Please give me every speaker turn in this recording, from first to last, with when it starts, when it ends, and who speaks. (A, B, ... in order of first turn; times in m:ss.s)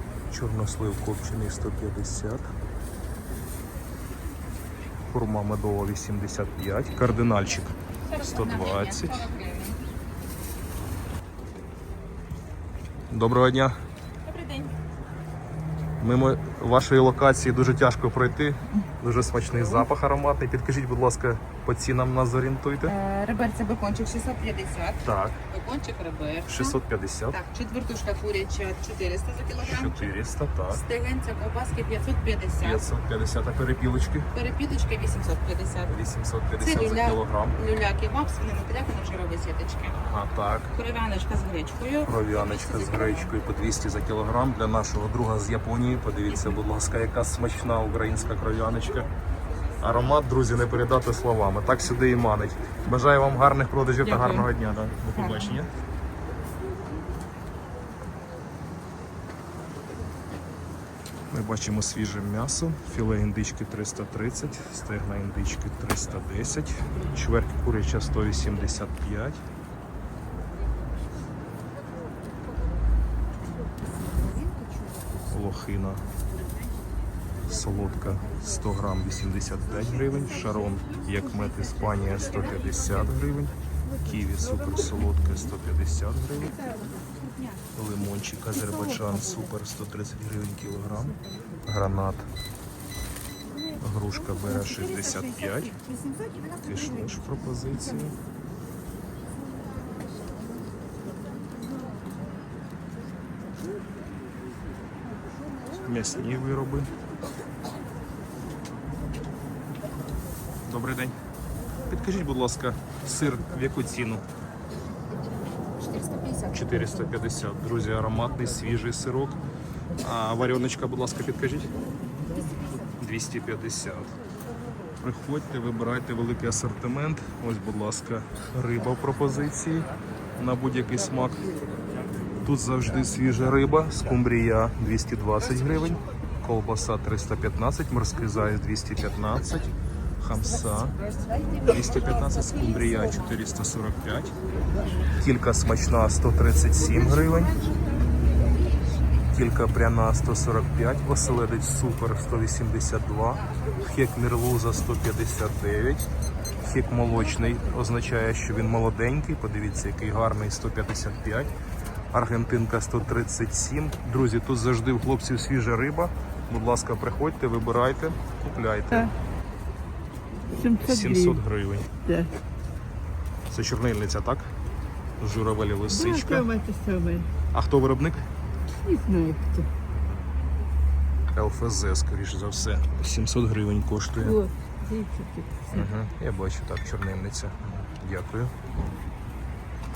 0:00.3-0:02.5 A
0:05.1-0:09.2 A
0:08.0-0:09.8 B
0:13.1-0:13.8 A
0:14.3-0:14.7 B
0:16.0-0:22.9 A
0:19.5-0:19.9 B
0:22.8-0:26.8 B
0:25.0-0:25.4 A
0:26.5-0:27.4 A
0:27.3-0:30.1 B
0:29.6-0:30.8 A
0:30.7-0:32.8 B
0:32.6-0:34.3 A
0:34.4-0:35.9 B
0:35.9-0:37.6 A
0:36.6-0:40.0 B
0:40.0-0:40.7 A
0:40.7-0:43.3 B
0:42.0-0:49.1 A
0:46.3-0:46.6 B
0:49.8-0:55.7 A
0:54.0-0:54.5 B
0:55.2-0:55.5 B
1:01.3-1:09.4 A
1:15.3-1:16.0 A
1:17.5-1:26.5 A
1:22.2-1:22.8 B
1:27.8-1:32.3 A
1:33.8-1:35.7 A
1:35.7-1:37.1 C
1:36.6-1:38.2 A
1:45.8-1:46.9 A
1:50.7-1:51.2 A
1:51.9-1:54.2 A
1:55.8-1:56.5 C
1:56.5-1:59.4 A
2:00.0-2:01.7 A
2:03.0-2:04.1 A
2:05.0-2:11.5 A
2:12.4-2:21.0 A
2:21.2-2:23.2 C
2:21.7-2:24.3 A
2:25.2-2:27.6 A
2:29.3-2:36.1 A
2:36.6-2:41.5 A
2:42.1-2:49.1 A
2:50.5-2:51.4 C
2:50.8-2:51.9 A
2:53.5-2:54.5 A
2:55.2-2:56.5 A
2:55.9-2:57.3 C
2:57.5-2:58.3 A
2:58.8-2:59.7 C
3:01.3-3:04.4 A
3:04.3-3:05.8 C
3:05.7-3:08.5 A